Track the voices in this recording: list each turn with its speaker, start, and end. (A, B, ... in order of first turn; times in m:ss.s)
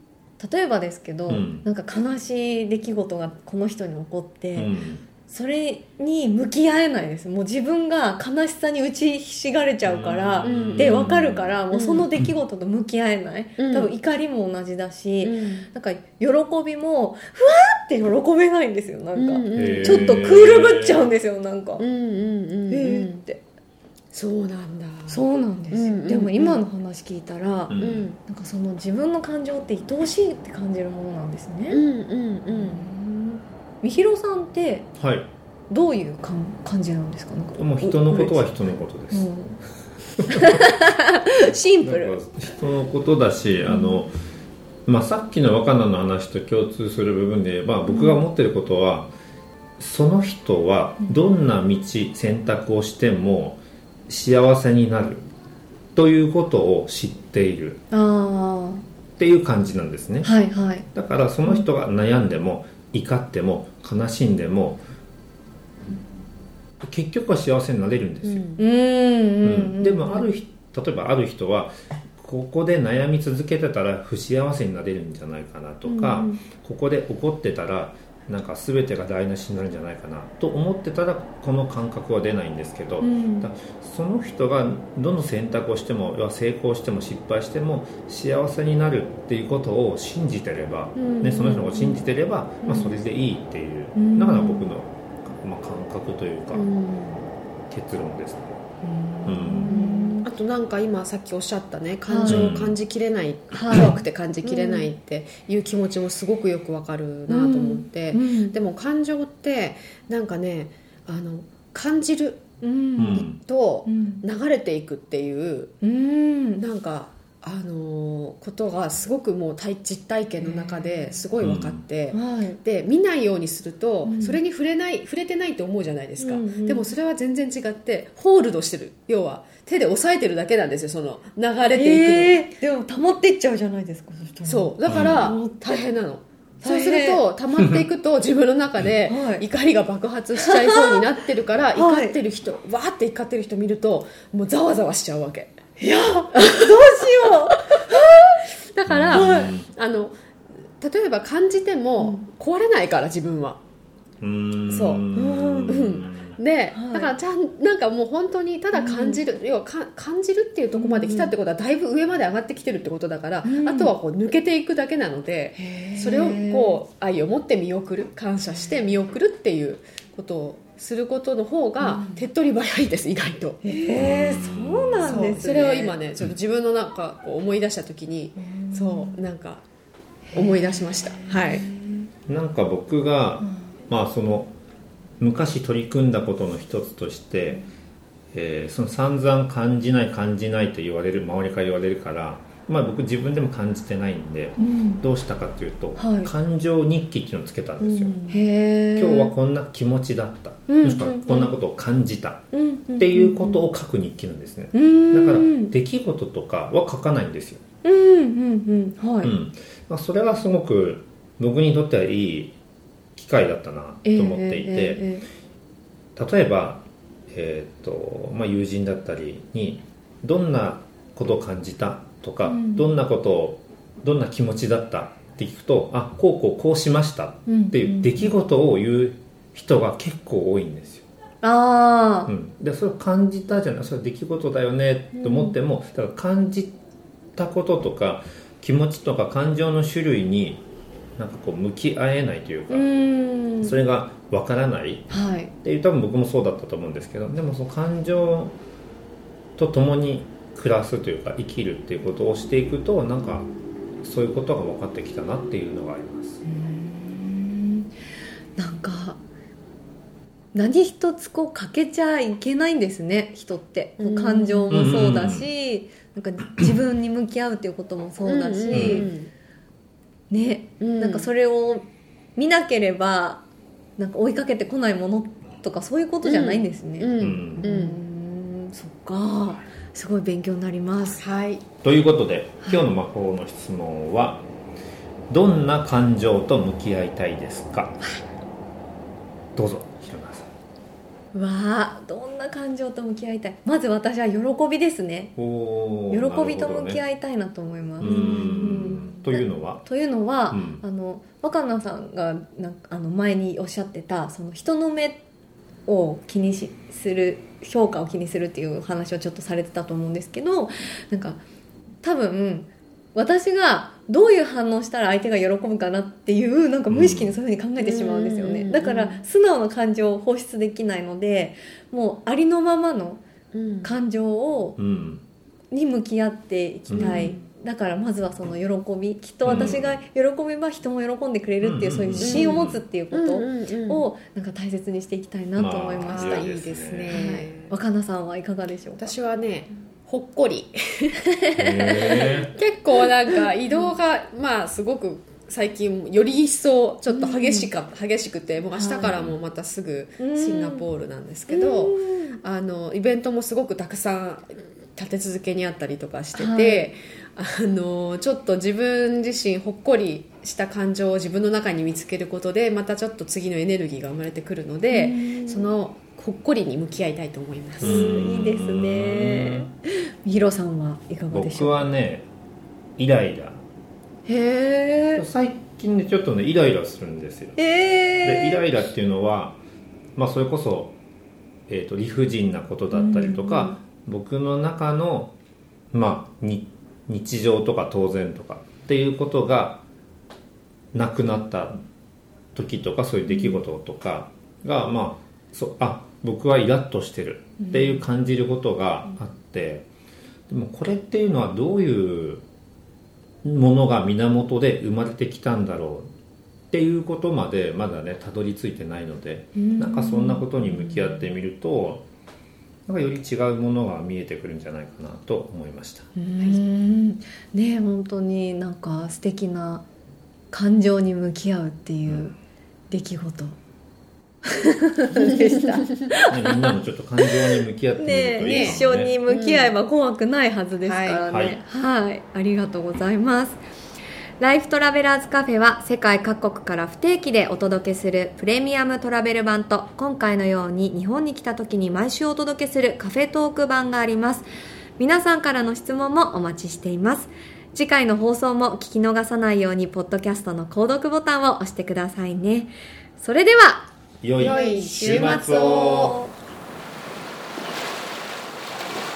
0:00.4-0:04.7 A
0:01.3-0:01.6 B
0:04.6-0:05.1 B
0:05.3-0:21.8 A
0:09.8-0:11.6 B
0:10.4-0:11.0 C
0:11.7-0:12.1 C
0:13.6-0:13.9 C
0:15.2-0:15.7 C
0:19.2-0:20.3 C
0:19.5-0:21.1 B
0:21.8-0:23.2 C
0:22.7-0:23.4 A
0:24.1-0:26.6 C
0:25.1-0:31.8 A
0:27.7-0:28.1 B
0:27.8-0:28.2 C
0:31.7-0:32.9 C
0:32.5-0:34.9 A
0:35.0-0:35.3 B
0:35.7-0:38.5 A
0:37.6-0:39.4 B
0:39.1-0:39.6 A
0:40.2-0:40.7 B
0:40.2-0:42.2 A
0:41.8-0:44.1 B
0:43.7-0:44.0 A
0:44.9-0:49.1 B
0:47.9-0:48.2 A
0:49.8-0:55.2 B
0:56.0-0:57.8 B
0:57.9-0:58.8 A
0:59.2-1:00.4 B
1:00.2-1:00.9 A
1:00.9-1:04.8 B
1:06.8-1:08.4 B
1:08.2-1:08.6 C
1:08.6-1:10.3 A
1:09.4-1:36.7 B
1:15.8-1:16.4 A
1:23.0-1:23.5 A
1:31.0-1:31.9 C
1:31.5-1:32.0 A
1:32.6-1:33.0 A
1:34.0-1:34.7 A
1:36.5-1:37.3 C
1:37.7-1:38.6 B
1:38.8-1:40.3 A
1:39.2-1:39.8 B
1:39.7-1:52.5 C
1:42.1-1:42.5 A
1:42.3-1:42.8 B
1:43.5-1:44.9 A
1:47.3-1:48.6 A
1:52.6-1:53.3 A
1:53.0-1:53.4 B
1:53.2-1:55.7 C
1:53.9-1:54.2 A
1:55.8-1:56.6 A
1:56.6-2:12.5 C
2:00.4-2:01.2 A
2:01.4-2:01.8 B
2:02.1-2:02.6 A
2:04.0-2:04.4 A
2:06.2-2:06.8 A
2:11.7-2:15.8 A
2:14.5-2:25.5 C
2:14.9-2:15.2 B
2:16.6-2:17.2 A
2:19.1-2:19.4 A
2:20.4-2:21.0 A
2:21.8-2:22.2 A
2:25.8-2:28.4 A
2:26.3-2:28.0 C
2:28.6-2:30.2 C
2:28.9-2:29.7 B
2:29.1-2:29.5 A
2:30.8-2:33.6 C
2:34.2-2:36.4 B
2:34.7-2:35.0 C
2:35.1-2:36.0 A
2:35.7-2:53.6 C
2:36.7-2:37.1 A
2:38.7-2:39.2 A
2:40.8-2:41.3 A
2:43.4-2:43.9 A
2:45.6-2:46.8 A
2:51.8-2:52.2 A
2:53.6-2:56.0 A
2:53.9-2:55.3 B
2:55.0-2:59.6 C
2:58.4-2:59.2 A
3:00.3-3:02.1 A
3:00.3-3:01.7 C
3:02.3-3:04.5 B
3:03.4-3:03.7 A
3:05.2-3:07.6 B
3:08.3-3:18.2 B
3:14.6-3:15.0 A
3:16.0-3:16.3 A
3:17.8-3:19.3 A
3:19.0-3:27.6 B
3:20.7-3:21.5 A
3:22.5-3:23.6 A
3:24.7-3:25.7 A
3:27.8-3:29.3 A
3:29.2-3:32.6 B
3:33.2-3:35.1 B
3:34.0-3:35.3 A
3:36.2-3:51.1 B
3:42.4-3:42.9 A
3:47.5-3:48.3 A
3:51.4-3:52.3 A
3:52.3-3:56.8 B
3:55.2-3:55.5 A
3:57.4-4:00.6 B
4:01.2-4:02.9 B
4:02.7-4:03.7 A
4:03.6-4:08.6 B
4:05.1-4:05.5 A
4:09.6-4:13.5 B
4:14.0-4:16.4 B
4:16.4-4:17.9 A
4:18.6-4:19.2 A
4:20.5-4:29.1 A
4:24.0-4:24.8 C
4:24.7-4:25.5 B
4:28.2-4:29.3 C
4:28.7-4:29.1 B
4:30.3-4:33.4 A
4:30.8-4:31.3 C
4:34.0-4:41.2 A
4:36.2-4:38.0 C
4:37.2-4:37.7 B
4:41.2-4:41.6 C
4:41.8-4:44.4 B
4:45.3-4:48.0 B
4:49.6-4:50.5 B
4:51.3-4:55.4 A
4:55.4-4:57.0 B
4:56.1-5:05.2 A
4:58.0-4:59.8 B
5:00.5-5:00.8 B
5:05.9-5:11.4 A
5:12.0-5:23.2 A
5:16.9-5:17.4 B
5:17.8-5:19.2 C
5:23.5-5:23.9 C
5:23.8-5:24.8 A
5:24.8-5:25.2 B
5:25.7-5:36.5 A
5:26.9-5:27.4 B
5:27.0-5:27.4 C
5:29.4-5:30.0 B
5:29.5-5:29.7 C
5:31.6-5:32.8 B
5:32.2-5:32.6 C
5:33.1-5:34.1 C
5:35.6-5:37.2 B
5:36.0-5:37.8 C
5:37.1-5:39.1 A
5:39.0-5:41.2 C
5:41.3-5:42.5 A
5:41.6-5:42.5 B
5:41.9-6:08.1 C
5:43.3-5:43.8 A
5:47.1-5:47.7 A
5:48.8-5:49.1 A
5:49.0-5:49.4 B
5:50.2-5:50.9 A
5:51.5-5:52.4 A
5:56.4-5:56.9 A
6:04.9-6:05.7 A
6:07.8-6:09.7 B
6:07.8-6:11.9 A
6:11.3-6:12.3 B
6:13.0-6:13.6 B
6:14.3-6:15.2 A
6:15.2-6:17.6 B
6:17.6-6:18.6 A
6:18.2-6:19.6 B
6:20.2-6:21.0 B
6:21.7-6:25.3 B
6:22.9-6:23.8 A
6:25.9-6:29.8 B
6:30.9-6:31.8 B
6:32.5-6:39.9 B
6:33.3-6:33.6 A
6:37.6-6:38.0 A
6:40.5-6:42.4 B
6:43.4-6:46.1 B
6:46.7-6:52.0 B
6:49.6-6:51.3 A
6:52.9-6:56.1 B
6:56.2-6:59.8 A
7:00.5-7:02.3 A
7:02.1-7:02.3 B
7:02.9-7:03.6 A
7:04.4-7:06.7 A
7:05.2-7:06.0 C
7:06.3-7:09.2 B
7:07.3-7:13.6 A
7:08.4-7:08.8 C
7:09.3-7:09.7 C
7:10.8-7:11.2 C
7:11.3-7:11.6 B
7:14.4-7:24.5 A
7:25.0-7:33.9 A
7:34.2-7:36.2 B
7:34.4-7:36.2 C
7:34.4-7:36.3 A